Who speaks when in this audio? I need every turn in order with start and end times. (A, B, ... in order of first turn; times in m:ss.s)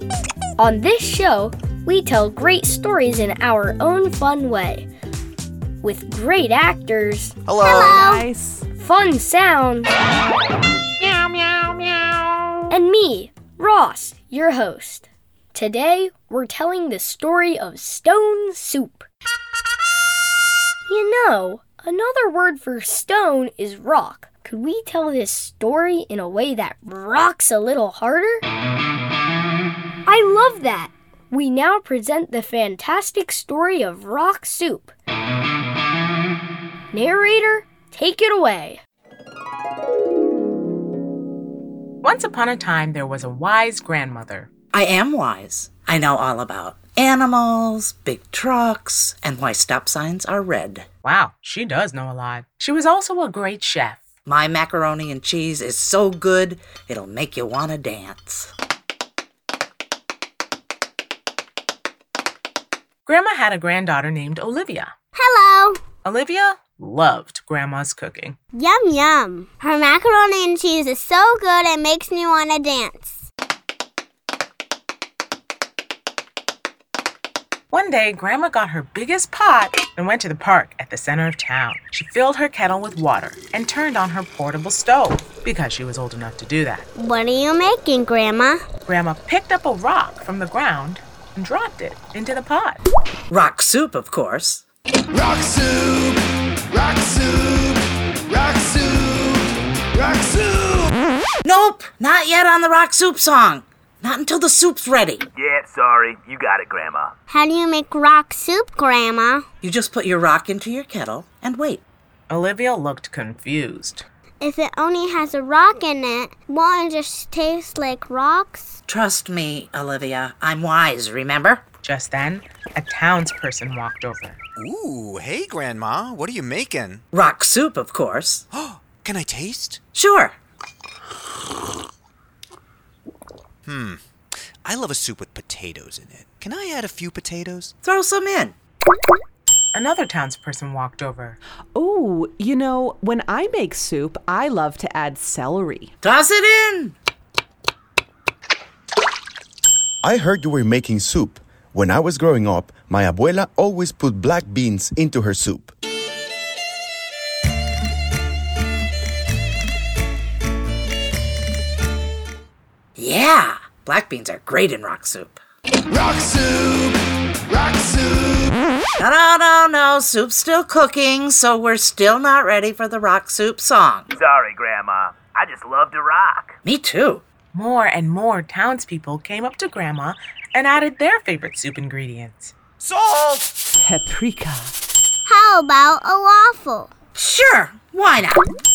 0:00.6-0:04.9 A
0:05.8-0:07.3 A
0:07.5-0:08.1 B
0:07.6-0:08.3 C
0:07.9-0:08.6 D
0:08.8-0:09.9 A
0:12.7-0:19.1 A
0:20.9-0:28.4 A
0:30.0-0:34.9 A
0:36.9-0:38.8 A
0:42.0-0:44.5 E
0:44.7-0:50.9 F
0:51.0-0:54.0 E
0:54.2-0:58.5 F
1:03.0-1:04.9 E
1:05.2-1:05.8 C
1:06.0-1:08.4 E
1:08.5-1:13.1 C
1:17.7-1:26.9 E
1:27.0-1:28.6 C
1:28.8-1:32.8 E
1:33.3-1:34.6 F
1:41.4-1:45.2 F
1:45.3-1:47.1 G
1:47.3-1:49.4 C
1:49.6-1:51.8 F
1:52.3-1:54.0 E
1:54.4-1:58.8 C
1:58.9-2:01.6 F
2:01.8-2:04.4 E
2:04.6-2:07.0 B
2:07.1-2:08.4 F
2:08.5-2:09.8 B
2:09.9-2:10.4 F
2:13.7-2:14.0 B
2:14.6-2:17.7 B
2:17.8-2:18.6 F
2:19.7-2:21.4 E
2:21.7-2:25.9 D
2:26.0-2:27.0 F
2:30.0-2:35.7 H
2:43.0-2:45.4 F
2:49.0-2:54.1 F
2:54.2-2:56.5 G
2:56.6-2:57.2 F
2:57.5-3:02.5 E
3:03.7-3:04.7 D
3:05.3-3:06.9 C
3:07.1-3:08.4 F